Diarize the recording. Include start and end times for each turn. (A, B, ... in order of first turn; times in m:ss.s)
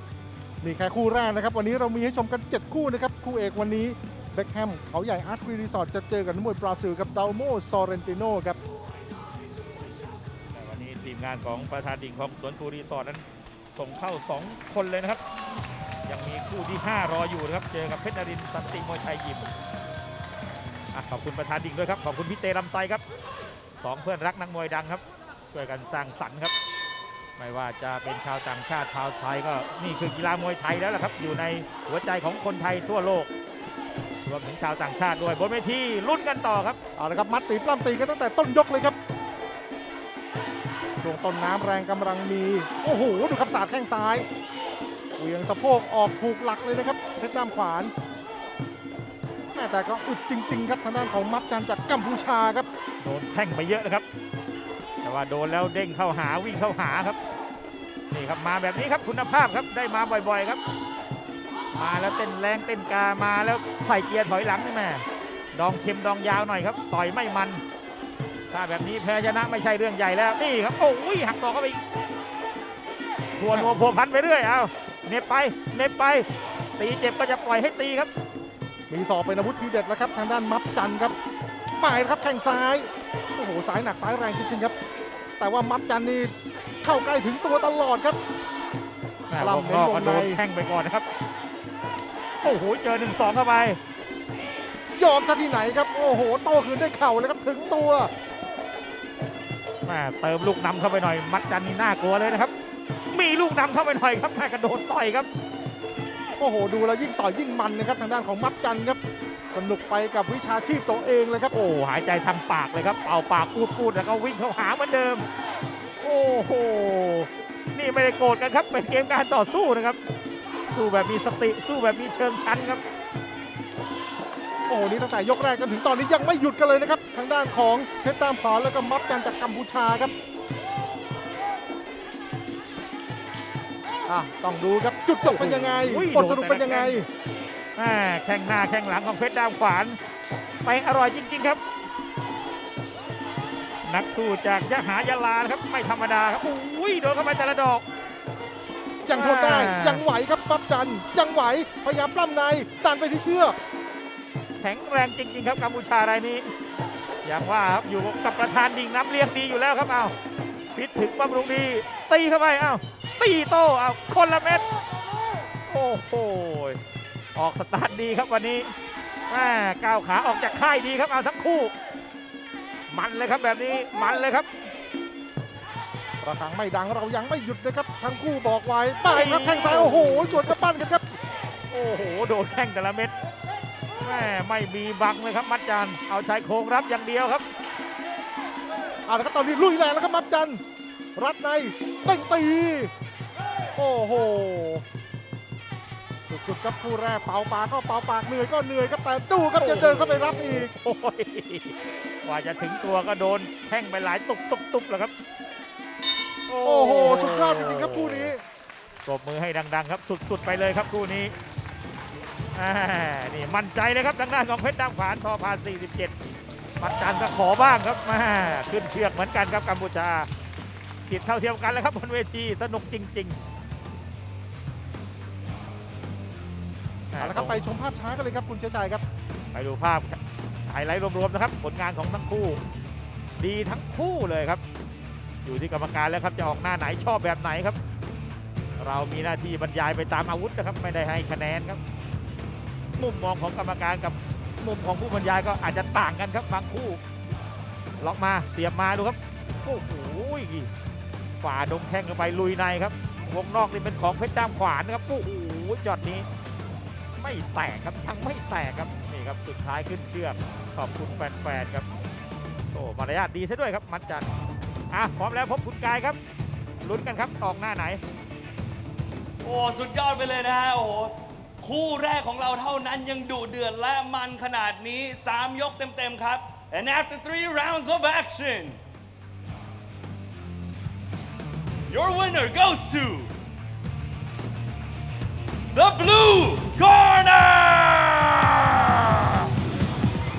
0:00.6-0:08.6 A
0:10.5-0:15.2 B
0:16.0-0:19.5 B
0:20.9-0:23.0 B
0:23.8-0:26.5 B
0:27.4-0:33.3 B
0:34.2-0:36.8 B
0:37.0-0:39.0 A
0:41.0-0:44.3 A
0:45.2-0:47.9 A
0:49.6-0:52.7 A
0:53.0-0:54.1 B
0:55.0-0:57.2 B
0:58.1-1:00.6 B
1:01.7-1:07.6 B
1:08.5-1:11.8 B
1:13.4-1:18.1 B
1:13.5-1:13.8 A
1:18.9-1:21.1 A
1:21.8-1:24.7 A
1:25.4-1:28.2 A
1:29.3-1:31.1 B
1:29.4-1:30.4 A
1:32.4-1:33.8 B
1:35.0-1:38.1 A
1:39.8-1:42.5 B
1:43.1-1:45.3 B
1:46.4-1:49.0 A
1:49.5-1:51.5 A
1:51.5-1:55.2 B
1:56.0-2:00.0 B
2:00.7-2:02.8 B
2:04.7-2:10.1 A
2:14.1-2:17.1 A
2:15.2-2:17.0 B
2:17.8-2:20.0 B
2:20.6-2:21.6 B
2:23.8-2:27.8 B
2:29.0-2:33.6 A
2:29.1-2:30.0 B
2:34.6-2:36.5 B
2:37.2-2:40.2 B
2:40.8-2:44.6 B
2:45.7-2:46.8 B
2:47.4-2:48.7 B
2:49.3-2:51.7 B
2:52.9-2:54.5 B
2:56.2-3:01.1 A
2:59.0-3:00.5 B
3:01.7-3:03.2 B
3:04.0-3:07.4 B
3:09.1-3:10.6 A
3:11.2-3:12.9 A
3:13.8-3:14.8 A
3:16.3-3:20.7 A
3:19.6-3:25.1 B
3:26.5-3:28.3 B
3:26.6-3:28.4 A
3:29.0-3:31.4 B
3:32.5-3:36.2 B
3:36.8-3:40.3 B
3:41.1-3:43.4 B
3:47.1-3:47.6 B
3:47.2-3:49.0 A
3:49.5-3:52.6 B
3:53.4-3:54.6 B
3:55.4-3:57.8 B
3:58.8-4:01.8 B
4:03.0-4:07.0 B
4:08.0-4:10.7 B
4:11.4-4:16.3 B
4:17.2-4:21.9 B
4:22.7-4:24.3 B
4:24.9-4:26.2 B
4:26.8-4:28.0 B
4:29.4-4:38.8 C
4:41.9-4:43.3 C
4:45.7-4:49.5 C